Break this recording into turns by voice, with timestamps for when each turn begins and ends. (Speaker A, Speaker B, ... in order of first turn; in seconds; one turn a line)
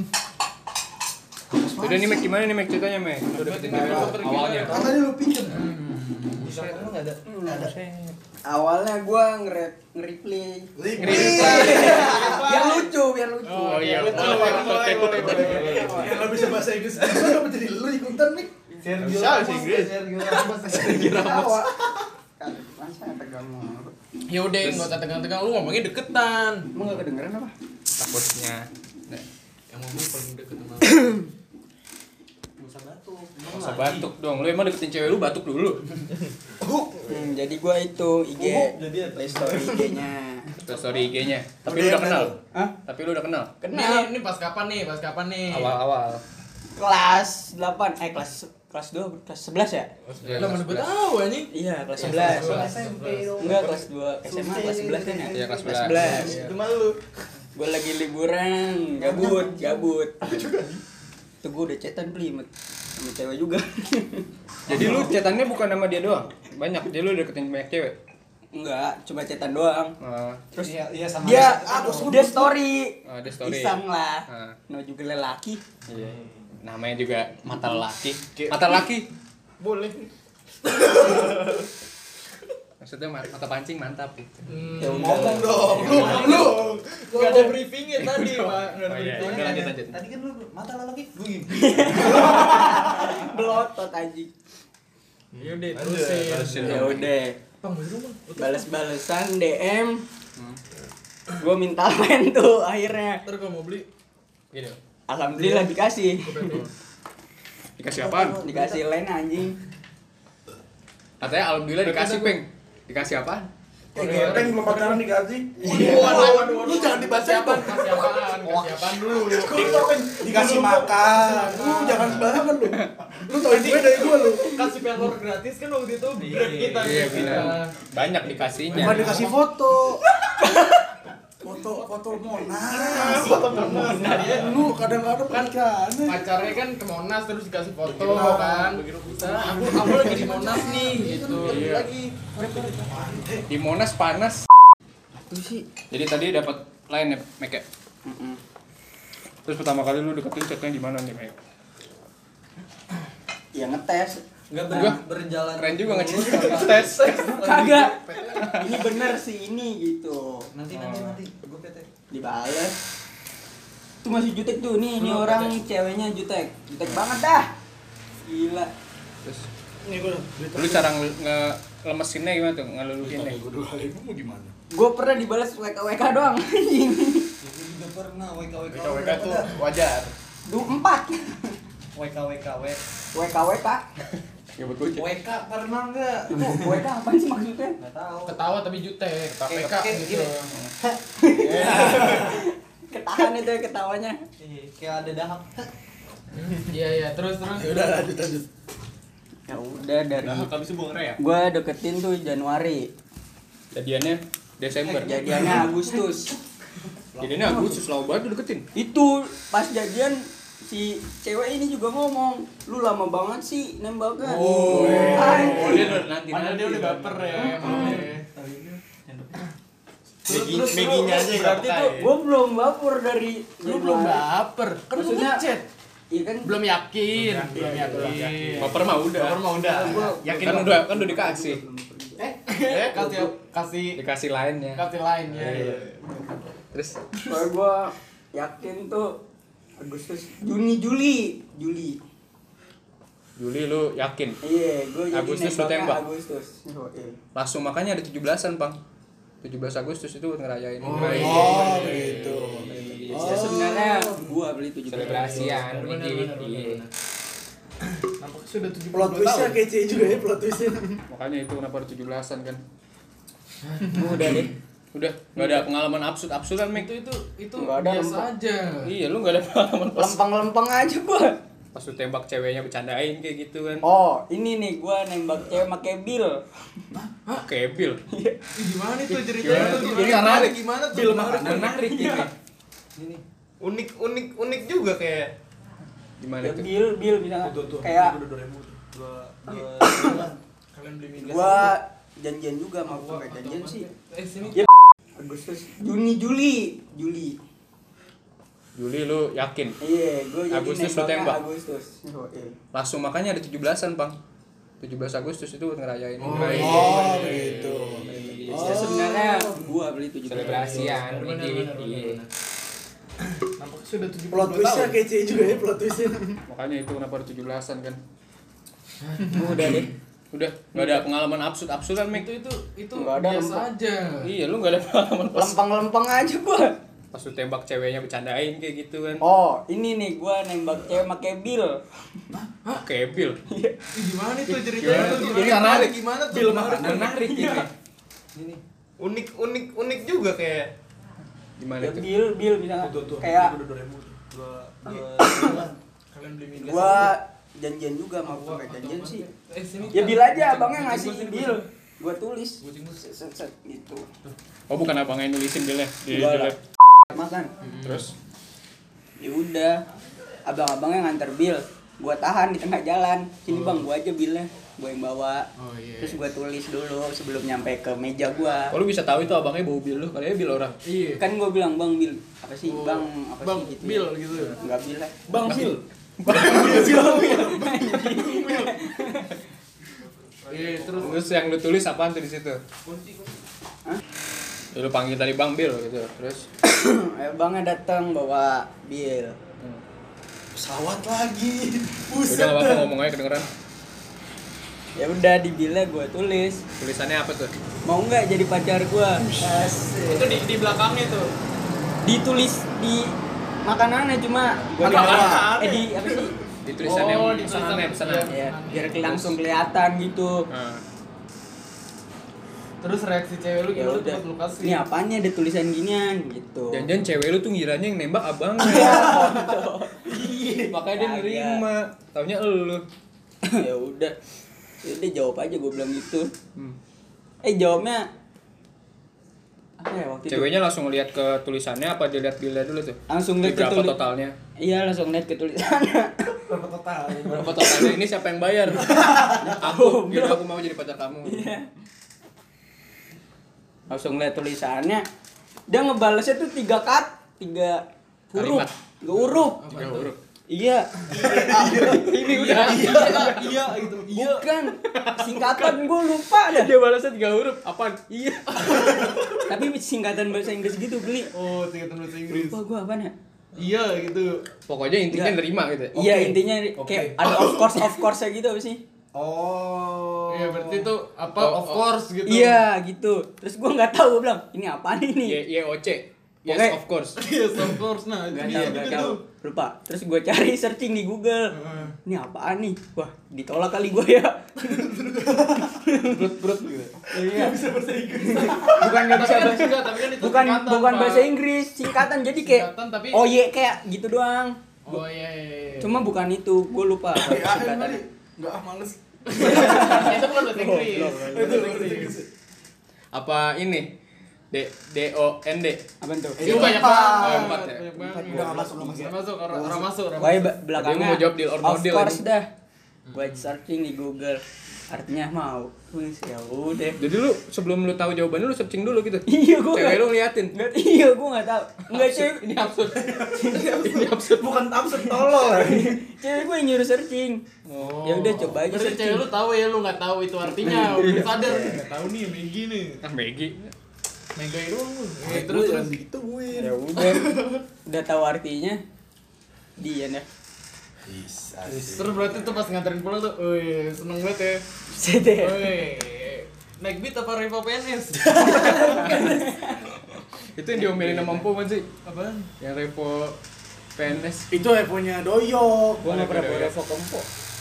Speaker A: 1.5-2.4
Speaker B: 1.8-4.8
Speaker C: 3.2-4.9
Speaker A: 3.7-5.7
Speaker C: 5.5-6.5
Speaker D: 6.3-7.2
Speaker A: 6.6-6.9
Speaker E: 7.2-7.7
Speaker A: 7.4-7.7
Speaker B: 7.5-8.1
Speaker E: 8.5-14.4
Speaker A: 10.8-12.4
Speaker B: 11.0-12.0
Speaker C: 11.1-12.7
Speaker D: 11.4-12.8
Speaker C: 13.4-16.3
Speaker B: 13.6-15.9
Speaker A: 14.1-18.5
Speaker D: 15.3-16.2
Speaker E: 15.3-16.2
Speaker D: 18.8-21.5
Speaker F: 19.0-20.0
Speaker C: 20.7-21.4
Speaker E: 21.0-21.6
Speaker E: 22.4-23.9
Speaker C: 24.3-26.7
Speaker B: 24.6-24.9
Speaker E: 26.7-27.5
Speaker B: 28.0-29.2
Speaker C: 29.7-31.1
Speaker D: 32.6-34.1
Speaker B: 33.5-35.8
Speaker E: 37.1-40.5
Speaker D: 38.4-39.9
Speaker B: 40.6-43.5
Speaker D: 40.6-41.0
Speaker A: 41.6-42.4
Speaker E: 43.6-44.1
Speaker C: 43.7-45.8
Speaker B: 45.5-46.2
Speaker E: 46.8-49.9
Speaker B: 50.2-50.9
Speaker C: 50.2-53.3
Speaker E: 51.5-52.7
Speaker D: 52.0-56.4
Speaker E: 53.4-56.4
Speaker B: 55.3-56.3
Speaker F: 56.0-57.0
Speaker E: 57.5-60.2
Speaker D: 59.0-59.8
Speaker A: 60.2-60.8
Speaker E: 61.4-64.3
Speaker B: 64.7-68.0
Speaker D: 64.7-65.1
Speaker E: 68.5-69.9
Speaker B: 70.0-70.4
Speaker E: 70.5-75.6
Speaker D: 70.6-72.2
Speaker A: 71.4-72.5
Speaker B: 73.0-74.6
Speaker B: 75.9-79.1
Speaker F: 78.3-78.7
Speaker F: 79.6-80.0
Speaker A: 80.8-81.3
Speaker F: 81.0-81.6
Speaker B: 82.8-84.4
Speaker C: 84.5-89.7
Speaker E: 84.8-86.2
Speaker A: 84.8-87.0
Speaker D: 85.8-86.3
Speaker F: 86.3-86.7
Speaker B: 88.0-90.0
Speaker D: 89.1-93.4
Speaker E: 91.5-94.3
Speaker F: 95.3-96.8
Speaker C: 95.4-97.0
Speaker B: 96.2-97.1
Speaker E: 96.6-97.4
Speaker C: 97.6-98.7
Speaker E: 98.3-100.0
Speaker E: 101.4-103.2
Speaker C: 103.2-103.8
Speaker B: 104.5-104.8
Speaker E: 105.1-106.6
Speaker C: 105.3-106.7
Speaker B: 107.8-108.4
Speaker A: 108.0-108.6
Speaker E: 108.4-109.6
Speaker B: 111.2-114.6
Speaker C: 111.8-112.4
Speaker A: 113.9-124.6
Speaker C: 114.0-115.0
Speaker C: 115.6-122.4
Speaker D: 115.8-116.5
Speaker D: 120.4-120.8
Speaker C: 123.4-127.8
Speaker D: 126.2-127.5
Speaker B: 126.8-129.3
Speaker C: 128.6-129.4
Speaker A: 128.7-130.1
Speaker E: 130.3-130.8
Speaker A: 131.4-136.4
Speaker C: 132.7-141.9
Speaker E: 133.1-134.5
Speaker A: 137.9-143.5
Speaker B: 143.5-144.4
Speaker E: 145.2-145.7
Speaker B: 145.9-147.6
Speaker E: 148.0-148.4
Speaker B: 149.4-151.3
Speaker E: 153.5-154.9
Speaker D: 154.5-158.6
Speaker B: 154.7-155.0
Speaker B: 155.5-157.1
Speaker C: 157.0-157.3
Speaker E: 157.1-160.5
Speaker D: 160.5-161.9
Speaker B: 160.7-161.2
Speaker E: 162.1-162.8
Speaker E: 164.0-167.5
Speaker C: 165.0-165.5
Speaker E: 168.2-168.7
Speaker A: 169.8-170.8
Speaker B: 170.5-173.4
Speaker A: 173.0-174.5
Speaker E: 174.7-177.3
Speaker D: 177.4-179.5
Speaker F: 178.7-180.1
Speaker E: 180.5-181.6
Speaker D: 181.9-182.8
Speaker E: 183.1-183.8
Speaker B: 184.6-185.1
Speaker D: 184.9-186.8
Speaker E: 186.3-187.8
Speaker D: 187.8-188.4
Speaker C: 188.2-190.5
Speaker F: 189.3-189.6
Speaker D: 189.4-192.3
Speaker E: 191.2-194.2
Speaker A: 191.6-192.3
Speaker D: 194.4-195.7
Speaker C: 196.3-197.8
Speaker A: 197.6-198.4
Speaker E: 199.5-200.5
Speaker F: 200.2-201.2
Speaker E: 201.2-202.9
Speaker B: 203.7-205.5
Speaker D: 204.8-205.6
Speaker E: 205.0-206.3
Speaker D: 207.2-207.7
Speaker B: 207.2-208.6
Speaker E: 208.7-216.0
Speaker C: 214.2-218.3
Speaker B: 214.7-216.9
Speaker D: 214.7-215.8
Speaker E: 217.3-218.0
Speaker A: 218.5-218.8
Speaker F: 220.3-222.1
Speaker C: 220.3-221.1
Speaker E: 220.9-224.2
Speaker C: 223.6-225.7
Speaker E: 224.9-225.4
Speaker E: 226.1-226.6
Speaker C: 226.4-229.0
Speaker F: 227.2-228.3
Speaker E: 227.5-228.2
Speaker B: 228.6-229.5
Speaker F: 229.0-230.8
Speaker D: 229.6-232.3
Speaker E: 229.7-232.2
Speaker B: 230.3-231.6
Speaker C: 232.4-234.0
Speaker F: 232.7-233.1
Speaker B: 233.9-235.8
Speaker C: 234.7-235.9
Speaker F: 235.5-235.8
Speaker B: 236.7-237.0
Speaker E: 237.2-239.2
Speaker E: 239.8-242.0
Speaker B: 243.4-244.4
Speaker E: 244.4-247.2
Speaker B: 245.1-246.0
Speaker B: 247.3-248.8
Speaker B: 249.4-253.5
Speaker C: 250.8-253.3
Speaker A: 250.8-254.2
Speaker E: 253.1-255.6
Speaker B: 254.9-256.8
Speaker C: 254.9-256.9
Speaker C: 258.0-259.5
Speaker A: 258.9-261.0
Speaker B: 261.1-262.6
Speaker C: 263.6-264.5
Speaker E: 263.9-264.5
Speaker B: 264.9-266.9
Speaker C: 265.4-265.6
Speaker C: 266.7-268.9
Speaker E: 267.6-268.3
Speaker B: 268.8-270.2
Speaker E: 269.9-271.4
Speaker B: 271.7-273.8
Speaker E: 273.8-276.4
Speaker B: 277.3-278.0
Speaker E: 278.1-278.4
Speaker C: 278.6-281.7
Speaker B: 279.1-280.6
Speaker E: 279.5-280.2
Speaker E: 280.9-282.3
Speaker B: 281.2-282.3
Speaker F: 283.6-285.3
Speaker B: 286.2-286.7
Speaker E: 286.4-288.2
Speaker A: 287.4-290.4
Speaker E: 289.8-290.2
Speaker C: 290.7-291.8
Speaker E: 291.2-293.9
Speaker C: 292.9-294.6
Speaker E: 294.5-297.4
Speaker B: 298.8-299.8
Speaker E: 299.8-302.6
Speaker B: 300.5-301.4
Speaker B: 302.7-304.2
Speaker B: 304.8-308.9
Speaker C: 306.2-308.7
Speaker A: 306.2-309.5
Speaker E: 308.2-311.0
Speaker B: 310.3-312.2
Speaker C: 310.3-312.3
Speaker C: 313.3-315.0
Speaker A: 314.3-316.4
Speaker B: 316.5-318.0
Speaker C: 319.0-319.9
Speaker E: 319.3-319.9
Speaker B: 320.3-322.3
Speaker C: 322.1-324.3
Speaker E: 322.9-323.6
Speaker B: 324.2-325.6
Speaker E: 325.3-326.8
Speaker B: 327.1-329.2
Speaker E: 329.2-331.8
Speaker B: 332.7-333.4
Speaker E: 333.5-333.8
Speaker C: 333.9-337.1
Speaker B: 334.6-337.7
Speaker E: 334.8-335.6
Speaker E: 336.5-337.7
Speaker F: 339.0-340.7
Speaker B: 341.6-342.1
Speaker E: 341.8-343.6
Speaker A: 342.8-345.7
Speaker E: 345.2-345.6
Speaker C: 346.1-347.2
Speaker E: 346.6-349.3
Speaker C: 348.2-351.6
Speaker E: 349.9-354.1
Speaker C: 352.6-353.0
Speaker B: 354.7-356.6
Speaker E: 356.1-356.6
Speaker E: 357.1-357.5
Speaker C: 357.6-358.1
Speaker B: 357.8-358.1
Speaker E: 359.2-359.8
Speaker E: 360.4-365.5
Speaker C: 363.5-363.9
Speaker C: 365.6-366.2
Speaker E: 366.0-368.8
Speaker B: 368.7-370.8
Speaker C: 370.8-371.2
Speaker E: 371.2-375.8
Speaker C: 372.6-374.6
Speaker B: 375.4-377.4
Speaker E: 376.3-379.4
Speaker A: 376.5-376.9
Speaker C: 376.7-378.7
Speaker C: 380.5-381.2
Speaker B: 380.9-382.6
Speaker B: 384.7-386.4
Speaker E: 386.6-389.4
Speaker A: 390.5-392.9
Speaker B: 392.2-393.5
Speaker E: 395.0-396.6
Speaker B: 396.8-397.5
Speaker E: 397.9-399.4
Speaker A: 399.4-400.3
Speaker C: 400.0-401.3
Speaker E: 402.0-403.1
Speaker E: 403.6-406.4
Speaker A: 404.8-405.6
Speaker C: 404.8-409.0
Speaker B: 406.6-408.3
Speaker E: 408.3-410.4
Speaker B: 409.0-409.4
Speaker B: 410.5-410.8
Speaker C: 412.8-414.8
Speaker E: 413.7-416.9
Speaker B: 416.7-419.3
Speaker E: 418.6-421.6
Speaker B: 420.7-422.8
Speaker E: 423.5-424.1
Speaker E: 424.8-426.3
Speaker E: 427.4-428.1
Speaker E: 429.8-430.5
Speaker B: 430.3-434.3
Speaker E: 433.1-433.9
Speaker E: 434.6-436.4
Speaker A: 436.5-437.5
Speaker B: 437.2-441.5
Speaker E: 438.8-440.4
Speaker E: 441.2-441.7
Speaker E: 443.9-445.1
Speaker E: 445.7-449.7
Speaker B: 448.3-448.7
Speaker C: 449.2-450.1
Speaker B: 449.7-450.1
Speaker E: 450.5-453.4
Speaker A: 451.1-453.8
Speaker C: 451.5-454.5
Speaker B: 452.1-453.4
Speaker E: 454.1-456.7
Speaker B: 454.9-455.4
Speaker C: 456.5-459.4
Speaker E: 458.1-461.3
Speaker C: 461.3-462.6
Speaker E: 462.3-463.1
Speaker C: 463.5-464.4
Speaker B: 464.7-466.4
Speaker E: 465.1-465.4
Speaker E: 465.9-468.8
Speaker C: 466.8-467.6
Speaker D: 469.1-470.9
Speaker C: 470.3-472.6
Speaker B: 471.4-471.8
Speaker E: 472.2-475.4
Speaker B: 475.2-477.2
Speaker E: 476.4-476.8
Speaker C: 477.1-479.2
Speaker E: 478.3-484.9
Speaker C: 481.5-481.9
Speaker A: 484.6-485.8
Speaker E: 485.6-486.4
Speaker C: 486.1-486.9
Speaker E: 487.1-487.6
Speaker A: 487.1-489.1
Speaker E: 488.2-494.6
Speaker C: 488.7-491.3
Speaker C: 492.2-493.2
Speaker C: 494.9-496.0
Speaker E: 495.8-498.0
Speaker A: 497.1-500.0
Speaker C: 499.3-502.2
Speaker E: 499.3-502.0
Speaker A: 501.2-502.2
Speaker B: 503.1-503.9
Speaker B: 504.5-505.8
Speaker E: 506.0-506.8
Speaker C: 506.4-510.6
Speaker B: 506.4-507.9
Speaker A: 506.4-507.4
Speaker E: 508.0-508.6
Speaker A: 508.3-509.1
Speaker E: 510.2-512.5
Speaker B: 510.7-512.2
Speaker C: 513.1-513.5
Speaker E: 513.1-517.0
Speaker B: 517.0-520.5
Speaker E: 519.3-522.5
Speaker B: 521.9-524.7
Speaker A: 523.1-526.0
Speaker E: 523.4-523.9
Speaker E: 524.9-527.4
Speaker B: 527.6-528.4
Speaker C: 527.7-533.0
Speaker E: 528.0-529.3
Speaker E: 530.6-531.8
Speaker B: 533.0-533.7
Speaker C: 534.4-536.0
Speaker A: 535.2-536.7
Speaker E: 536.5-538.8
Speaker C: 537.1-537.4
Speaker E: 539.8-540.2
Speaker A: 541.1-542.5
Speaker C: 541.7-544.6
Speaker E: 544.9-545.8
Speaker C: 545.4-549.3
Speaker A: 548.2-549.2
Speaker E: 548.3-549.9
Speaker B: 550.5-551.9
Speaker C: 550.9-551.4
Speaker C: 552.0-552.5
Speaker B: 552.6-553.4
Speaker B: 554.0-554.5
Speaker A: 554.5-556.2
Speaker B: 556.0-556.8
Speaker E: 556.8-557.2